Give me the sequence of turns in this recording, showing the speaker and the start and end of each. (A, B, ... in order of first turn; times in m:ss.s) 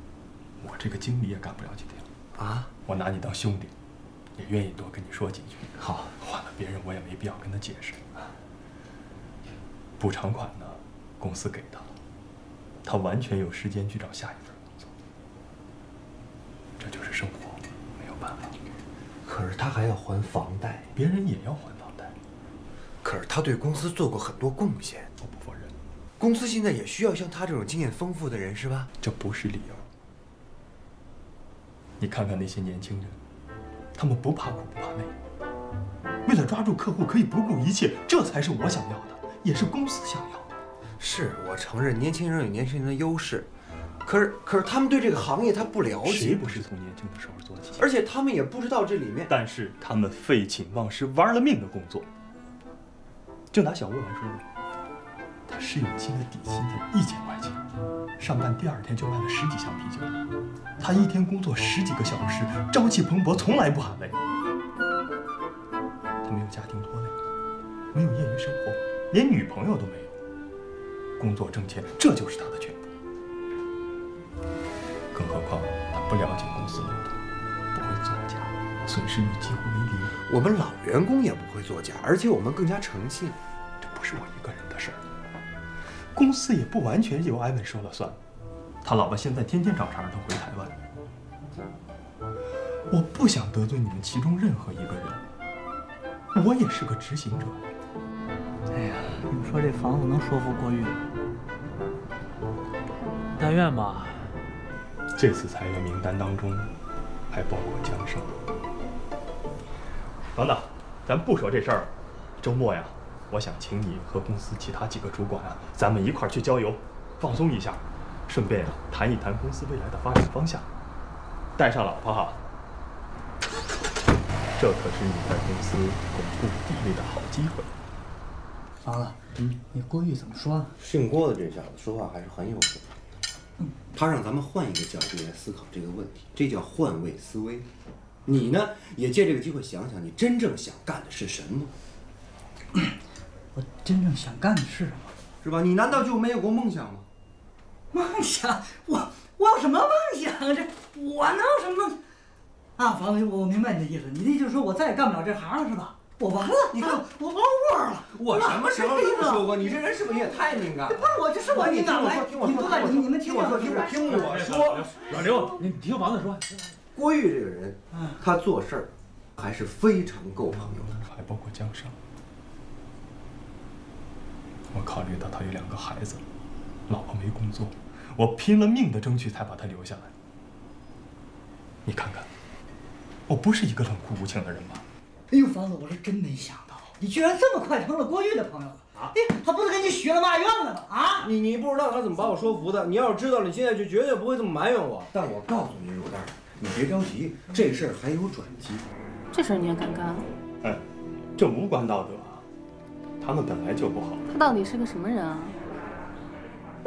0:00.6-0:02.1 A
0:02.3-0:02.7 B
0:02.8-0:03.7 A
0:04.4-0:08.3 A
0:05.8-0:06.1 B
0:10.0-0:11.9 A
0:12.8-0:14.9 A
0:16.8-0:18.5 A
0:19.2-0:20.9 B
0:20.9-0:22.1 A
0:23.0-0:25.1 B
0:25.2-0:25.7 A
0:26.2-0:28.9 B
0:29.0-0:29.9 A
0:32.0-0:33.2 A
0:33.9-0:35.1 A
0:36.2-0:40.5 A
0:41.0-0:43.5 B
0:44.0-0:46.6 B
0:46.0-0:47.8 A
0:47.8-0:49.3 B
0:49.3-0:52.1 A
0:53.5-0:54.4 A
0:55.5-0:57.6 A
0:58.2-1:00.1 A
1:00.8-1:04.2 A
1:06.2-1:07.2 A
1:07.9-1:10.1 A
1:11.2-1:12.9 A
1:15.1-1:17.1 A
1:17.7-1:20.2 A
1:20.3-1:23.4 B
1:23.8-1:25.0 A
1:26.1-1:28.2 A
1:28.8-1:30.8 A
1:32.9-1:35.2 A
1:36.3-1:37.7 A
1:38.7-1:41.0 C
1:43.3-1:44.3 D
1:45.1-1:46.7 A
1:47.3-1:48.4 A
1:50.3-2:00.7 A
2:01.6-2:02.4 A
2:04.6-2:07.7 A
2:08.8-2:10.7 C
2:10.8-2:12.9 B
2:13.9-2:17.7 B
2:18.2-2:21.7 B
2:23.5-2:25.1 C
2:25.4-2:27.1 B
2:27.9-2:32.0 C
2:32.8-2:39.5 C
2:36.7-2:37.0 B
2:38.1-2:44.9 B
2:40.9-2:44.2 C
2:44.1-2:46.6 D
2:46.9-2:51.0 B
2:51.0-2:52.0 A
2:54.7-2:56.2 A
2:56.9-3:00.1 A
3:01.8-3:02.3 A
3:03.3-3:04.8 A
3:05.3-3:11.3 C
3:11.2-3:18.8 B
3:19.3-3:20.3 E
3:21.4-3:22.4 A
3:23.2-3:24.2 A
3:24.3-3:25.6 E